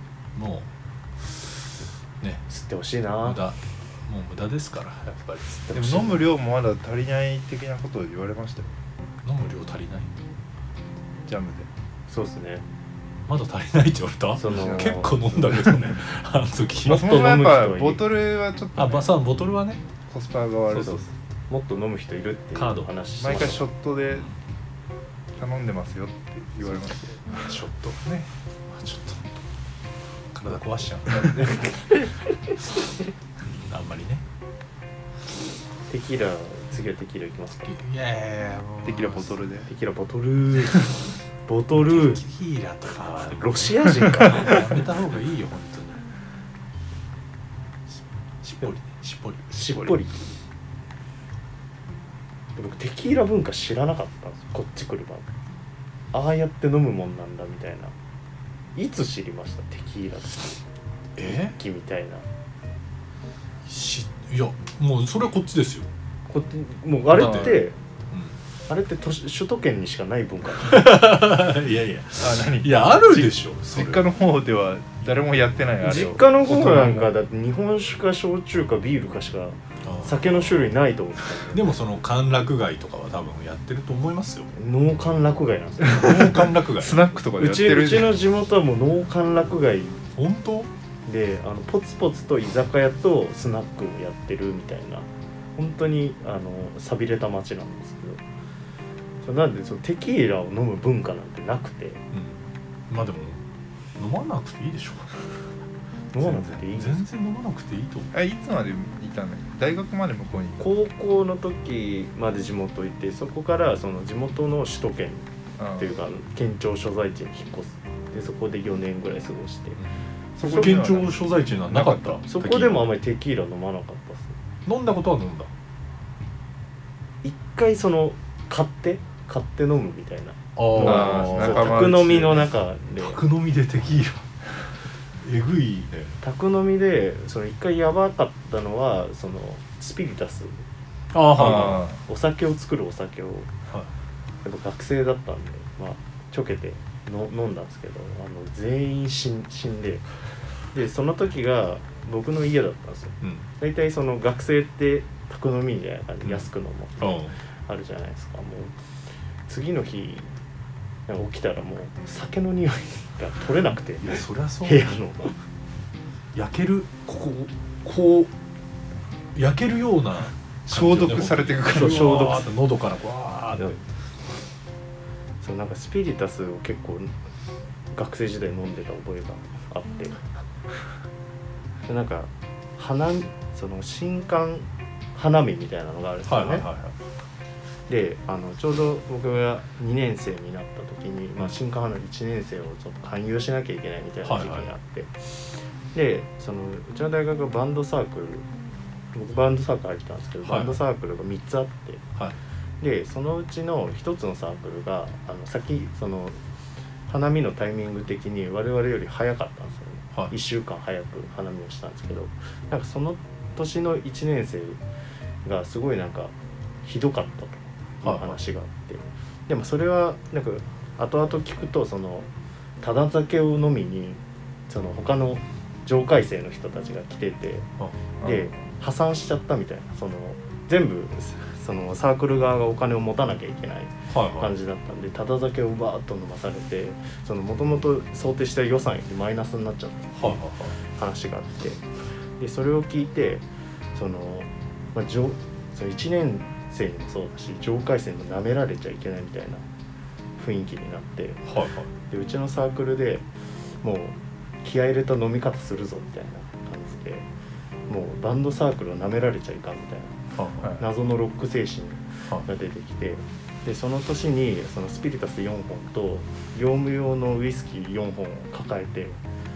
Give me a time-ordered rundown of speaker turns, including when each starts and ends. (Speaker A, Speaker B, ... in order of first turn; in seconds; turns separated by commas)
Speaker A: 0.3-0.7, Speaker A: 1.2-1.5, Speaker B: 2.5-3.4, Speaker A: 3.2-5.6, Speaker B: 5.5-6.2, Speaker C: 5.7-8.7, Speaker A: 9.2-10.1, Speaker C: 11.2-11.7, Speaker B: 12.1-12.7, Speaker A: 13.3-17.2, Speaker B: 14.4-15.8, Speaker C: 14.5-15.1, Speaker B: 16.9-18.1, Speaker C: 16.9-19.1, Speaker A: 18.8-19.8, Speaker C: 20.1-21.0, Speaker A: 20.7-21.0, Speaker B: 20.7-23.6, Speaker A: 22.6-22.9, Speaker C: 23.2-24.3, Speaker C: 25.4-27.4, Speaker A: 27.3-29.2, Speaker A: 30.3-31.7, Speaker C: 31.1-31.6, Speaker B: 31.4-31.7, Speaker A: 33.4-34.2, Speaker B: 35.9-37.8, Speaker A: 37.6-39.4, Speaker C: 38.8-39.7, Speaker B: 39.7-42.2, Speaker A: 41.7-46.0, Speaker B: 43.1-44.7, Speaker C: 44.2-44.6, Speaker A: 48.4-50.0, Speaker B: 49.5-50.2, Speaker B: 52.6-55.3, Speaker B: 56.1-57.9, Speaker B: 58.8-60.6, Speaker A: 61.2-61.6, Speaker B: 61.3-62.2, Speaker A: 63.7-65.9, Speaker B: 66.3-67.8, Speaker A: 67.1-68.4, Speaker B: 68.7-71.0, Speaker A: 70.7-74.1, Speaker C: 72.2-77.1, Speaker B: 75.8-81.7, Speaker A: 79.8-80.7, Speaker A: 81.5-84.5, Speaker B: 84.5-86.4, Speaker A: 85.9-87.0, Speaker C: 86.4-88.3, Speaker B: 87.4-90.0, Speaker A: 90.2-90.7, Speaker B: 91.1-98.2, Speaker B: 99.2-102.0, Speaker A: 102.1-103.4, Speaker A: 104.0-105.2, Speaker B: 106.1-107.0, Speaker A: 106.2-108.1, Speaker C: 108.1-110.6, Speaker B: 110.6-119.8, Speaker C: 115.6-116.0, Speaker C: 120.4-122.2, Speaker A: 120.4-122.9, Speaker B: 122.3-124.4, Speaker A: 124.7-125.5, Speaker B: 127.2-133.2, Speaker A: 130.6-131.8, Speaker C: 130.7-132.5, Speaker A: 133.0-134.3, Speaker A: 135.2-136.2, Speaker B: 136.2-140.6, Speaker A: 141.1-141.9, Speaker C: 141.4-142.0, Speaker B: 141.4-143.5, Speaker B: 144.4-150.1, Speaker B: 150.7-158.7, Speaker A: 153.2-153.5, Speaker A: 156.2-157.4, Speaker B: 159.5-160.3, Speaker B: 161.1-165.4, Speaker A: 164.0-164.9, Speaker A: 166.3-168.3, Speaker A: 169.3-173.8, Speaker C: 170.7-172.5, Speaker B: 171.7-172.5, Speaker B: 175.4-177.1, Speaker B: 177.9-180.2, Speaker B: 181.9-186.7, Speaker A: 186.3-187.0, Speaker B: 187.9-198.5, Speaker A: 194.2-194.7, Speaker B: 199.1-202.0, Speaker A: 200.4-200.8, Speaker B: 202.8-206.4, Speaker B: 207.1-214.8, Speaker B: 215.4-222.3, Speaker A: 218.0-218.4, Speaker B: 222.8-227.7, Speaker C: 228.2-228.5, Speaker B: 228.2-241.8, Speaker A: 234.1-234.5, Speaker A: 240.2-240.8, Speaker B: 242.4-249.6, Speaker B: 250.4-251.5, Speaker A: 251.5-251.9, Speaker B: 252.1-253.3, Speaker B: 253.8-257.3, Speaker B: 257.9-260.1, Speaker A: 260.3-260.8, Speaker B: 260.8-269.2